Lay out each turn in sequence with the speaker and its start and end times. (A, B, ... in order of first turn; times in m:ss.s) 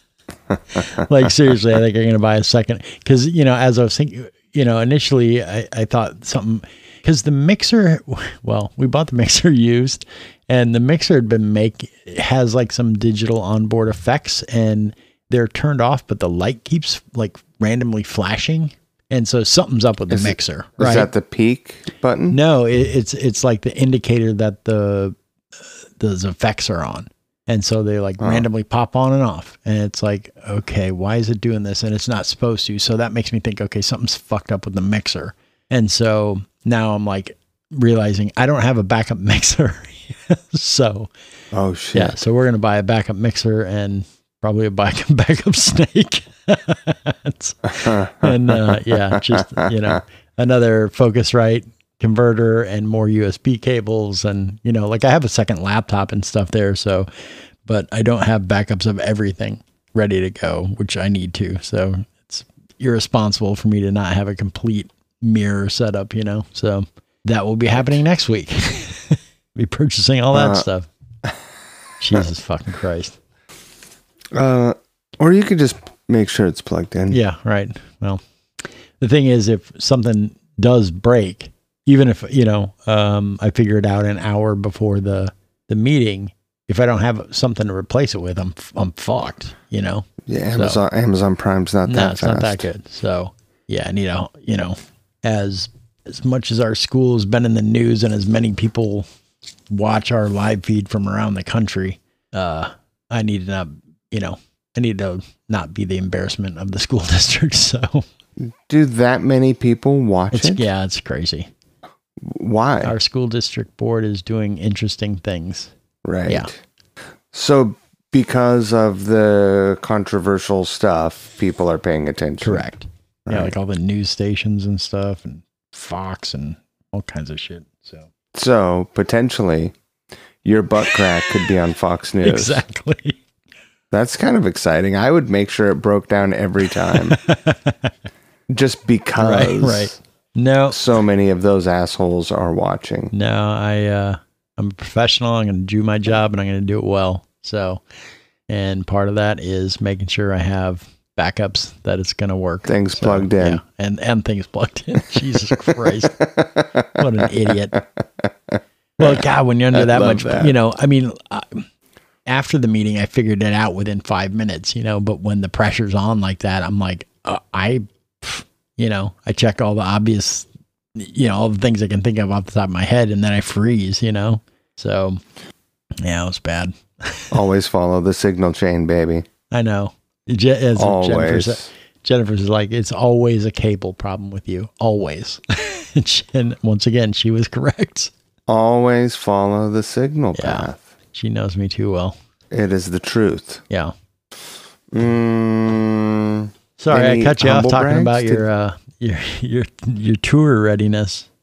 0:00.7-0:21.1 A
0:20.1-0:22.4 B
0:22.3-0:25.2 A
0:26.0-0:41.1 A
0:28.2-0:28.5 B
0:41.5-0:42.2 B
0:41.9-0:57.1 A
0:47.8-0:49.9 B
0:57.6-1:10.9 A
1:10.3-1:10.7 B
1:12.0-1:13.2 A
1:14.3-1:17.2 B
1:17.1-1:30.8 A
1:30.2-1:32.7 B
1:31.9-1:39.1 A
1:39.7-1:48.1 A
1:48.4-1:50.6 B
1:50.3-1:51.5 A
1:52.2-1:53.0 B
1:52.8-1:55.7 A
1:56.0-1:56.6 B
1:57.3-2:02.7 B
2:02.4-2:08.1 A
2:03.3-2:03.6 B
2:08.3-2:09.8 B
2:10.4-2:12.6 B
2:12.2-2:13.2 A
2:13.9-2:17.2 B
2:17.1-2:17.9 A
2:18.5-2:20.0 B
2:19.2-2:20.8 A
2:20.7-2:23.1 B
2:23.1-2:27.8 A
2:28.5-2:36.3 A
2:32.6-2:33.6 B
2:36.2-2:39.2 B
2:37.0-2:37.8 A
2:39.0-2:41.7 A
2:39.7-2:40.6 B
2:42.3-2:55.2 A
2:56.0-2:57.3 A
2:57.3-2:59.2 B
2:59.5-3:08.1 A
3:00.8-3:01.7 B
3:08.5-3:10.8 B
3:10.4-3:12.2 A
3:12.5-3:13.6 B
3:14.9-3:18.4 B
3:16.8-3:21.3 A